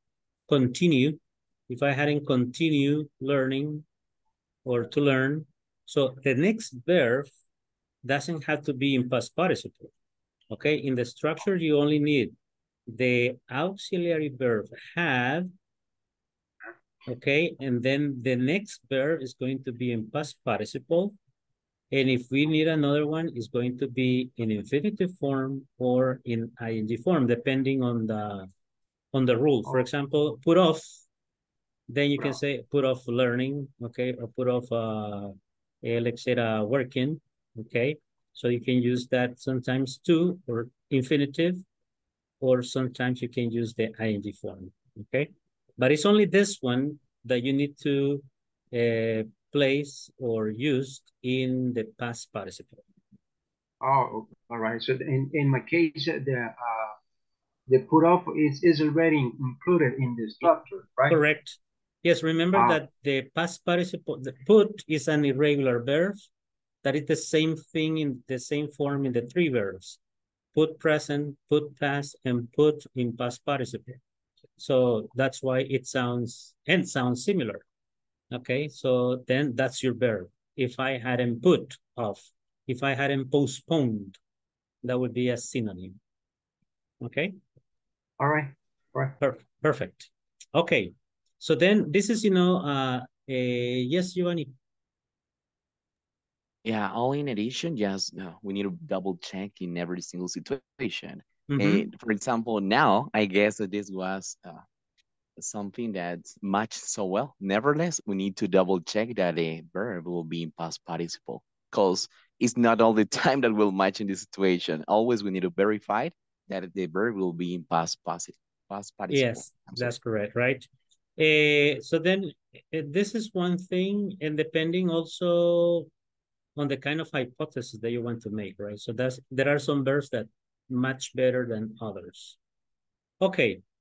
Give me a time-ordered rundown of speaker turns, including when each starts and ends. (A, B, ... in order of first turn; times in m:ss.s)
0:00.5-0:03.8 A
0:04.6-0:07.3 A
0:08.0-0:09.9 A
0:10.5-0:12.3 A
0:12.9-0:15.5 A
0:17.1-0:21.2 A
0:21.9-0:28.5 A
0:29.1-0:31.0 A
0:31.9-0:41.6 A
0:42.4-0:52.8 A
0:53.8-0:57.0 B
0:57.7-1:01.2 B
1:01.1-1:06.2 A
1:02.5-1:02.8 B
1:06.8-1:10.0 A
1:10.5-1:14.0 A
1:14.6-1:17.6 A
1:18.3-1:24.2 A
1:24.8-1:26.0 A
1:27.0-1:27.3 A
1:28.2-1:29.1 B
1:29.2-1:34.5 A
1:36.6-1:44.6 C
1:41.5-1:41.8 A
1:45.4-1:59.9 C
1:59.1-2:05.9 A
2:06.6-2:12.4 A
2:13.2-2:13.6 A